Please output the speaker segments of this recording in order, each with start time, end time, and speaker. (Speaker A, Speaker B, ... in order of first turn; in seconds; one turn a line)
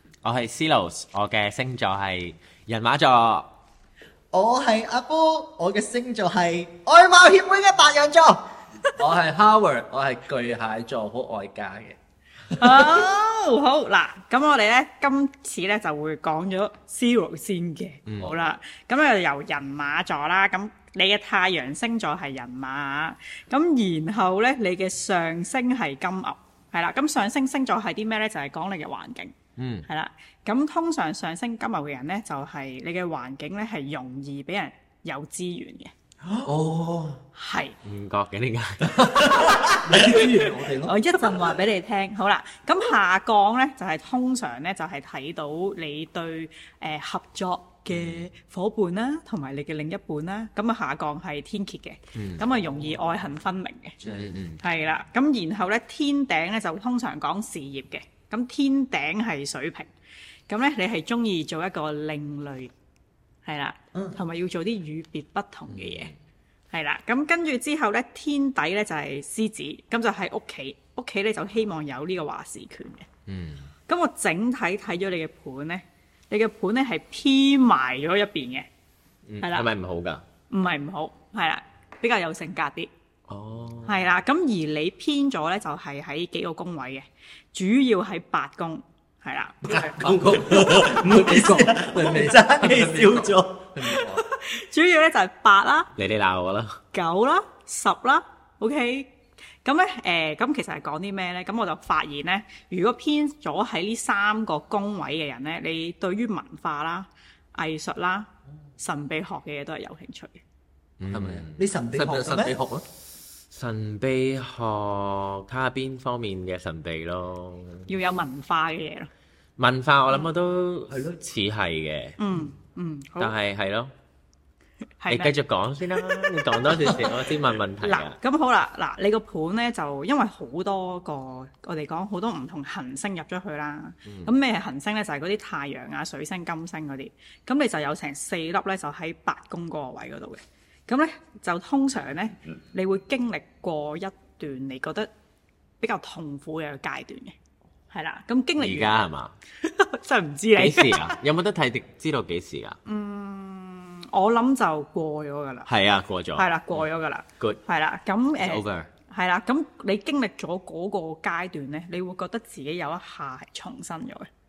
Speaker A: 0.2-3.5
Speaker B: 4.3-8.5
Speaker C: 9.0-12.0
Speaker C: 12.6-13.0
Speaker D: 12.6-29.4
Speaker A: 18.1-18.4
Speaker A: 29.6-29.9
Speaker D: 29.9-35.9
Speaker B: 36.2-36.5
Speaker C: 36.4-37.2
Speaker D: 37.4-37.8
Speaker A: 37.8-39.4
Speaker C: 38.8-41.0
Speaker D: 40.8-54.0
Speaker A: 47.9-48.3
Speaker A: 52.2-52.5
Speaker C: 54.0-54.4
Speaker A: 54.0-54.6
Speaker D: 54.6-59.9
Speaker D: 60.5-62.7
Speaker D: 63.5-66.1
Speaker B: 63.9-64.2
Speaker A: 65.7-66.1
Speaker D: 66.7-73.1
Speaker A: 73.3-73.7
Speaker D: 73.9-78.7
Speaker A: 79.3-80.2
Speaker D: 79.4-79.7
Speaker D: 80.5-82.9
Speaker A: 83.3-84.0
Speaker D: 83.9-90.0
Speaker C: 89.7-94.2
Speaker B: 90.0-93.7
Speaker D: 93.9-95.9
Speaker A: 96.0-96.8
Speaker D: 96.9-99.1
Speaker D: 99.6-110.4
Speaker A: 111.0-111.6
Speaker C: 111.1-112.8
Speaker B: 111.6-112.6
Speaker A: 113.5-117.9
Speaker D: 117.9-119.1
Speaker A: 119.6-122.2
Speaker D: 122.2-123.3
Speaker A: 123.2-123.9
Speaker D: 125.0-125.4
Speaker A: 125.1-128.2
Speaker D: 126.0-127.0
Speaker D: 127.8-145.1
Speaker A: 134.1-134.3
Speaker D: 145.8-147.3
Speaker D: 147.9-148.9
Speaker A: 148.6-149.3
Speaker D: 149.6-151.2
Speaker A: 150.6-152.8
Speaker D: 152.8-155.7
Speaker A: 155.7-156.8
Speaker D: 156.3-164.3
Speaker A: 158.4-158.9